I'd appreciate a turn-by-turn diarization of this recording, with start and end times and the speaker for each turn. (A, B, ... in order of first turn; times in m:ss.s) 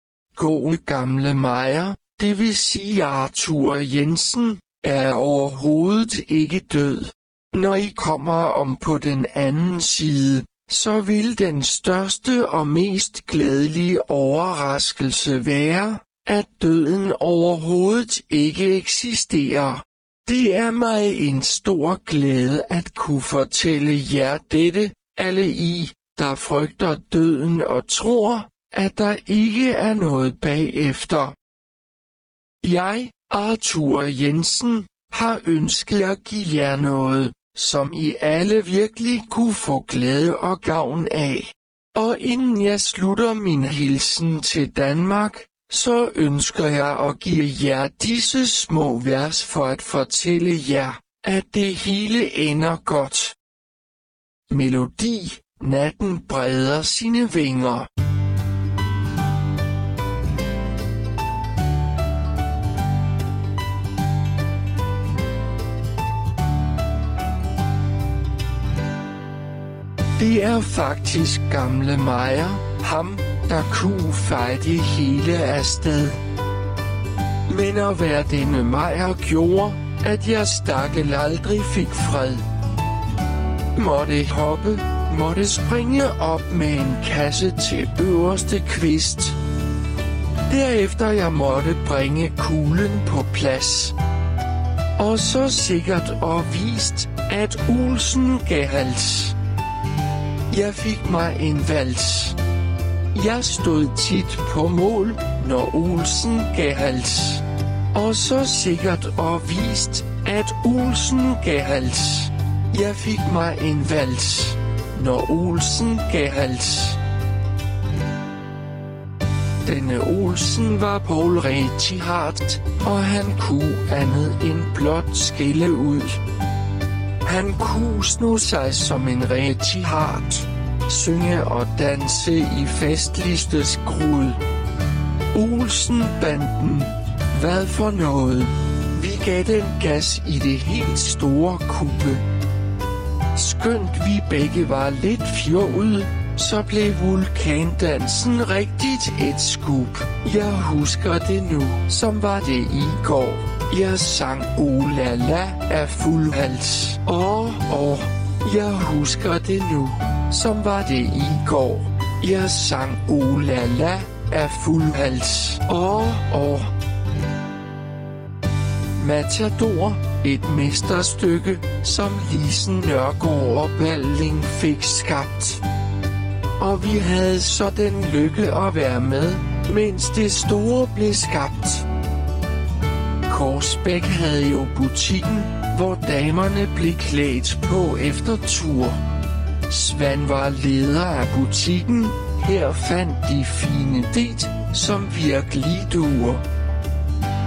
0:00.3-0:31.3 A
0:32.6-0:53.3 A
0:54.5-0:57.9 A
1:10.2-1:16.2 A
1:17.5-1:22.4 A
1:23.7-1:29.4 A
1:30.5-1:34.0 A
1:35.0-1:39.3 A
1:40.5-1:42.4 A
1:43.1-1:57.0 A
1:59.6-2:06.2 A
2:07.2-2:14.4 A
2:15.3-2:22.2 A
2:23.3-2:46.7 A
2:49.0-2:55.6 A
2:56.6-3:01.9 A
3:03.3-3:09.0 A
3:09.7-3:16.4 A